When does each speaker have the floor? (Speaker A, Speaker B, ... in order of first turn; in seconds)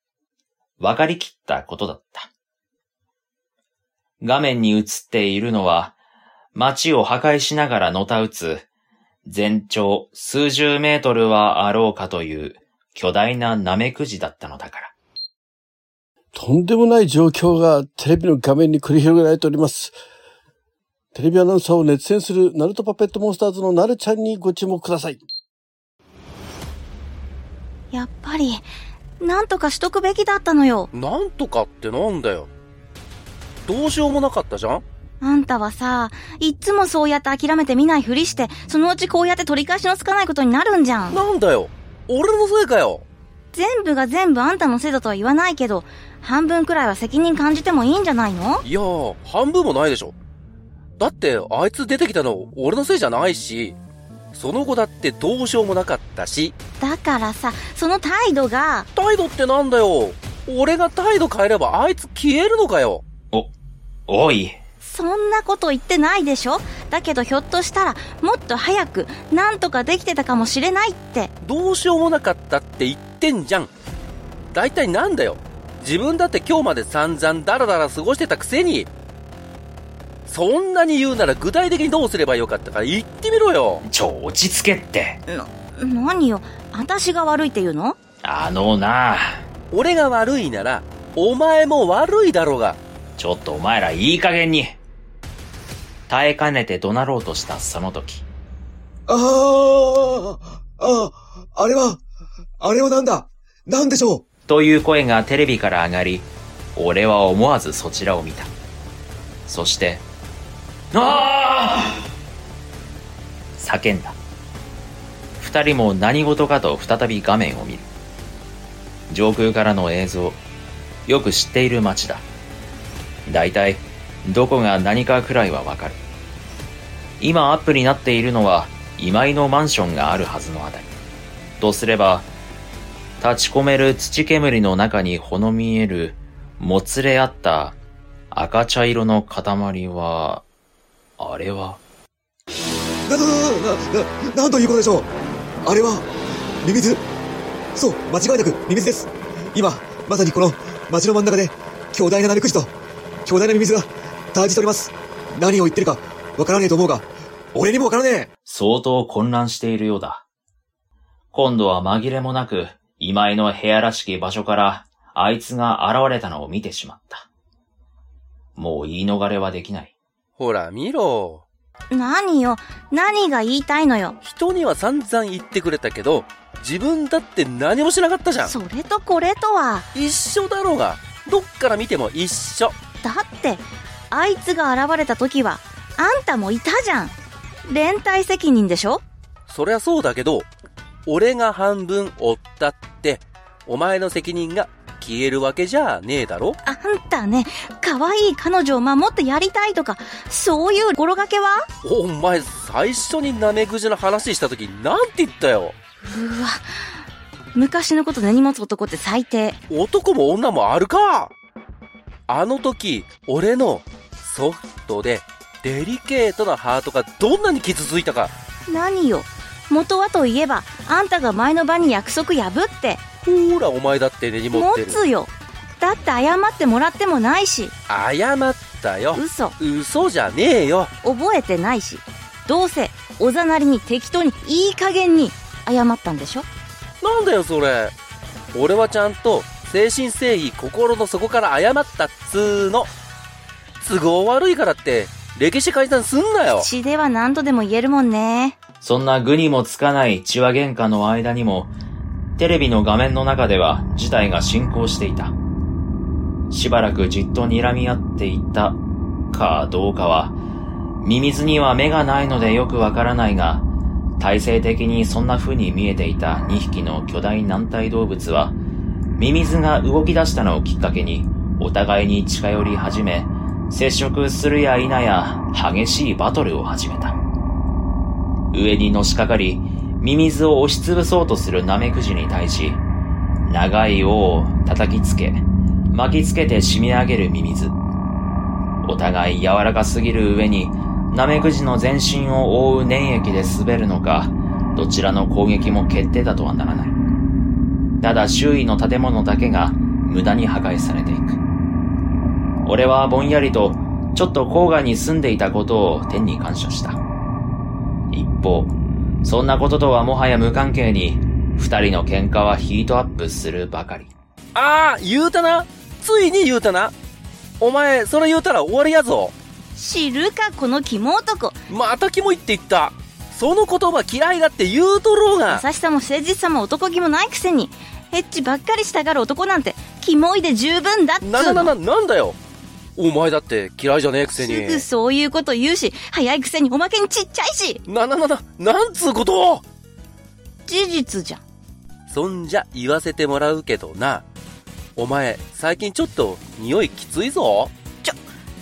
Speaker A: 0.8-2.3, 4.2-6.0, 6.5-8.7, 9.2-14.9, 64.1-64.6, 83.9-85.2, 88.2-89.4, 93.2-94.8, 96.1-98.2, 104.5-108.5, 109.5-110.0, 110.9-112.0, 113.6-114.2, 115.4-117.8, 119.1-120.4, 121.0-122.2, 123.3-126.0, 127.2-130.9, 131.6-132.3, 133.2-137.8, 138.3-140.4, 141.2-141.8, 158.4-160.2, 161.3-167.2, 168.6-169.9, 248.8-251.7, 252.4-255.3, 256.5-258.8, 259.3-260.4, 261.0-263.6, 264.2-268.6, 269.1-277.2, 278.5-282.8, 283.4-287.8, 288.8-296.9, 298.0-301.4, 302.6-307.0, 308.1-314.1
Speaker B: 16.3-19.9, 21.1-25.2
Speaker C: 27.9-28.6, 29.2-30.9, 35.2-41.2, 43.5-48.6, 56.8-58.9, 64.8-71.3, 85.3-88.0, 171.9-174.2, 178.4-179.8, 183.0-189.0, 196.6-201.7, 206.0-206.9, 207.5-209.6, 218.7-223.0, 224.5-227.7, 229.1-229.6, 231.0-236.5, 246.6-248.6, 319.8-321.6, 325.5-331.7, 334.4-337.8, 340.6-341.4
Speaker D: 30.9-32.5, 33.6-34.8, 41.1-43.0, 48.6-50.1, 51.0-53.8, 54.3-56.5, 58.9-63.0, 71.4-73.7, 74.5-78.9, 80.2-83.8, 89.7-92.8, 170.4-171.4, 174.2-178.5, 179.9-182.8, 189.5-190.5, 191.1-196.6, 201.8-205.7, 209.7-211.3, 212.3-218.3, 223.2-225.0, 227.9-230.9, 237.0-237.9, 238.5-242.9, 243.8-246.7, 314.5-316.9, 317.6-319.3, 321.7-325.6, 331.2-332.4, 332.9-334.8, 337.9-339.6, 342.1-344.2, 344.9-347.7
Speaker E: 99.1-102.0, 102.6-104.2, 143.1-145.1, 145.6-146.1, 146.6-147.0, 147.7-152.7, 153.2-158.3